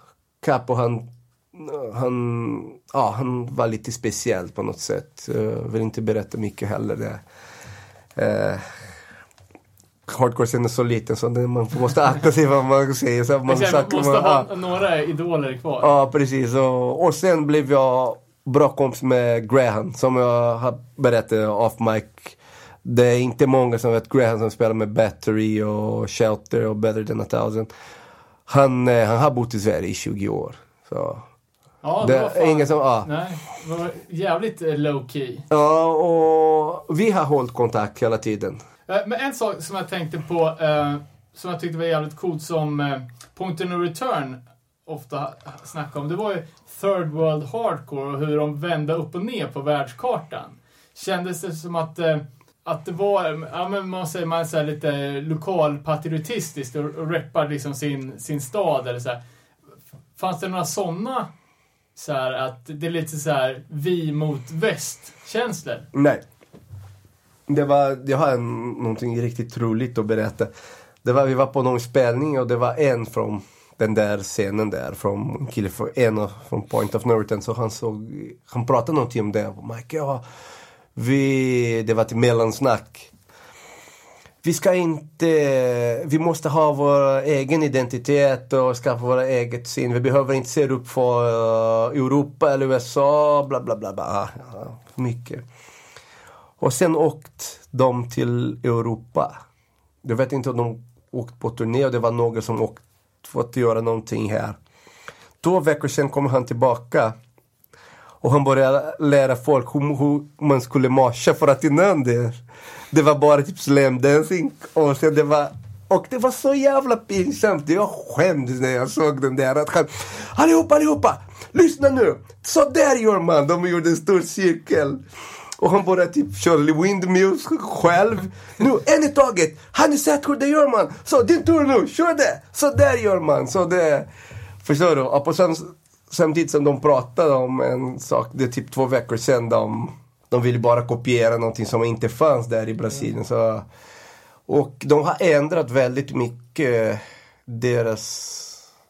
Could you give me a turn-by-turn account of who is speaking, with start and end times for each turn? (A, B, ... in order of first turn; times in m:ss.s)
0:00.4-0:07.2 A
0:08.2-0:08.6 A
0:10.1-0:14.5 A
0:13.4-0:15.9 B
0:15.8-0:27.7 A
0:28.5-0:31.2 A
0:31.8-0:35.4 B
0:32.0-0:33.1 A
0:35.5-0:38.6 A
0:38.9-0:59.2 B
1:00.2-1:01.3 B
1:02.0-1:05.9 B
1:05.9-1:06.2 A
1:07.5-1:10.5 A
1:11.0-1:20.2 A
1:21.0-1:23.1 A
1:24.4-1:35.4 A
1:36.6-1:39.3 A
1:40.0-1:44.6 A
1:45.4-1:47.2 A
1:48.2-1:52.4 A
1:52.9-2:05.0 A
2:05.6-2:14.1 A
2:14.6-2:23.6 A
2:24.5-2:28.6 A